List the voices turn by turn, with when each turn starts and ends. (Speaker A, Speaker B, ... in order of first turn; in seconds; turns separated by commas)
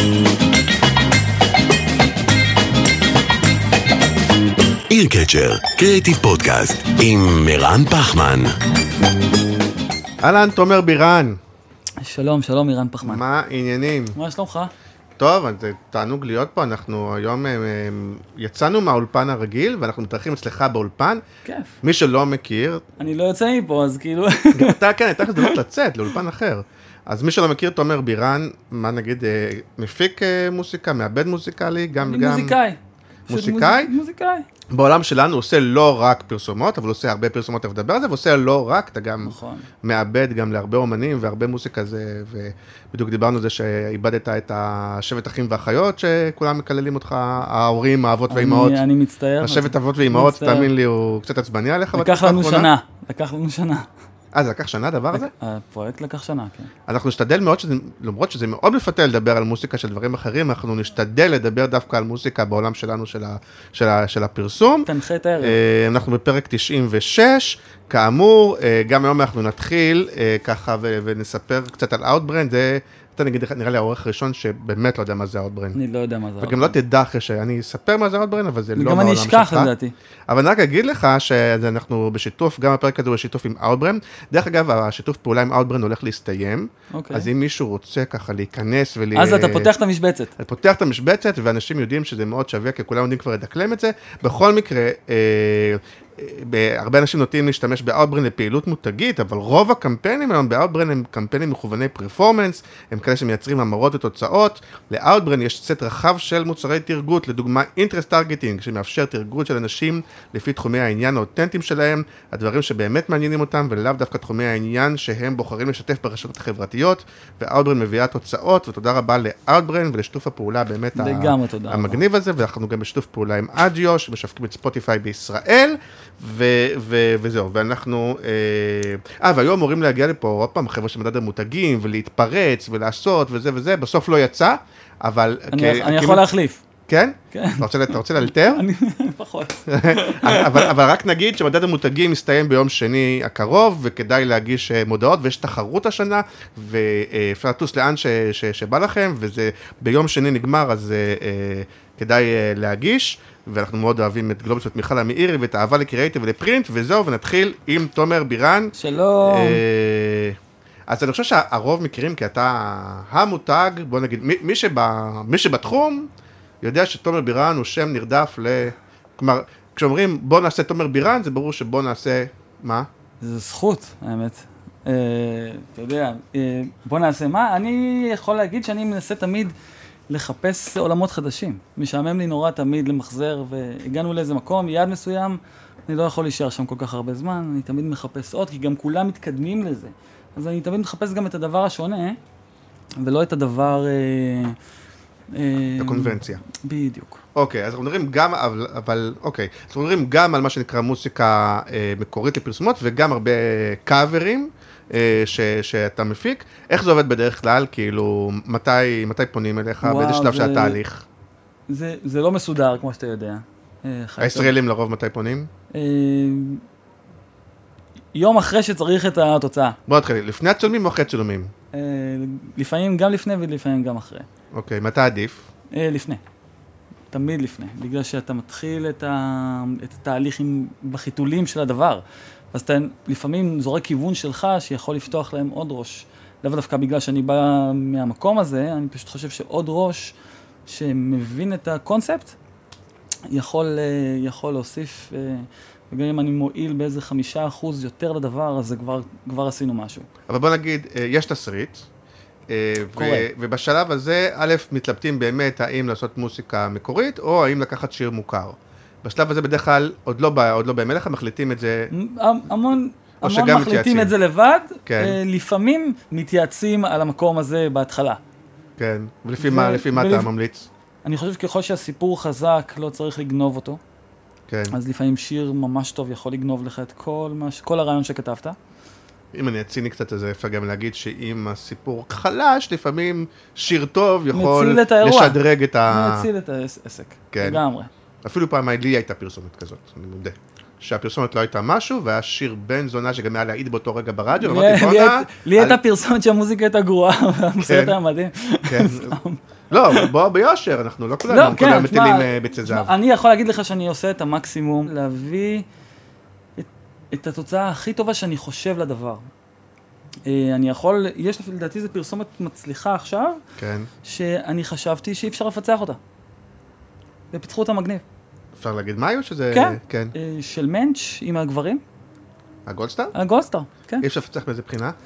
Speaker A: 4.9-8.5, Speaker B: 10.2-11.4, Speaker C: 12.0-13.2, Speaker B: 13.0-14.2, Speaker C: 14.1-14.7, Speaker B: 15.2-21.2, Speaker C: 21.4-21.8, Speaker B: 21.8-22.8, Speaker C: 23.0-25.6, Speaker B: 24.5-32.5, Speaker C: 32.0-34.5, Speaker B: 33.3-33.9, Speaker B: 34.7-48.8, Speaker C: 39.2-39.7, Speaker C: 48.3-50.7, Speaker B: 49.4-52.7, Speaker C: 51.9-53.9, Speaker B: 54.3-55.3, Speaker C: 55.1-56.7, Speaker B: 56.9-64.9, Speaker C: 64.8-65.6, Speaker B: 65.4-75.8, Speaker C: 75.7-76.7, Speaker B: 76.4-79.7, Speaker C: 78.7-79.9, Speaker B: 80.3-89.7, Speaker C: 86.9-87.3, Speaker C: 89.1-90.3, Speaker B: 90.4-136.2, Speaker C: 121.0-122.0, Speaker C: 135.5-136.6, Speaker B: 136.9-138.6, Speaker C: 137.3-137.7, Speaker C: 138.2-140.7, Speaker B: 139.7-166.1, Speaker C: 158.7-159.6, Speaker B: 166.6-172.9, Speaker C: 173.2-179.5, Speaker C: 180.1-192.2, Speaker C: 193.0-194.6, Speaker C: 195.3-197.2, Speaker B: 195.8-196.4, Speaker B: 197.3-211.0, Speaker C: 209.8-210.8, Speaker C: 211.7-214.5, Speaker B: 214.2-215.5, Speaker C: 215.7-216.6, Speaker C: 218.1-219.8, Speaker B: 219.9-221.5, Speaker C: 221.7-224.3, Speaker B: 224.5-225.4, Speaker C: 225.7-226.2, Speaker C: 227.1-240.1, Speaker C: 240.7-242.3, Speaker C: 243.3-250.1, Speaker B: 250.3-251.8, Speaker B: 252.5-261.9, Speaker C: 252.9-253.3, Speaker C: 261.9-268.2, Speaker B: 263.2-264.1, Speaker B: 264.9-265.2, Speaker B: 268.8-270.7, Speaker C: 269.4-270.3, Speaker C: 271.0-273.8, Speaker B: 274.5-274.7, Speaker C: 274.7-278.6, Speaker B: 279.3-286.3, Speaker C: 284.3-287.9, Speaker B: 287.3-287.6, Speaker B: 288.2-295.8, Speaker C: 294.4-300.1, Speaker B: 297.6-298.0, Speaker B: 298.6-299.2, Speaker B: 299.7-302.9, Speaker C: 301.3-305.6, Speaker C: 306.6-309.3, Speaker C: 310.2-313.4, Speaker B: 313.6-313.9, Speaker C: 314.0-316.0, Speaker C: 317.3-318.0, Speaker B: 318.6-320.1, Speaker C: 319.5-321.8, Speaker B: 322.6-323.1, Speaker C: 323.1-324.1, Speaker B: 324.0-324.9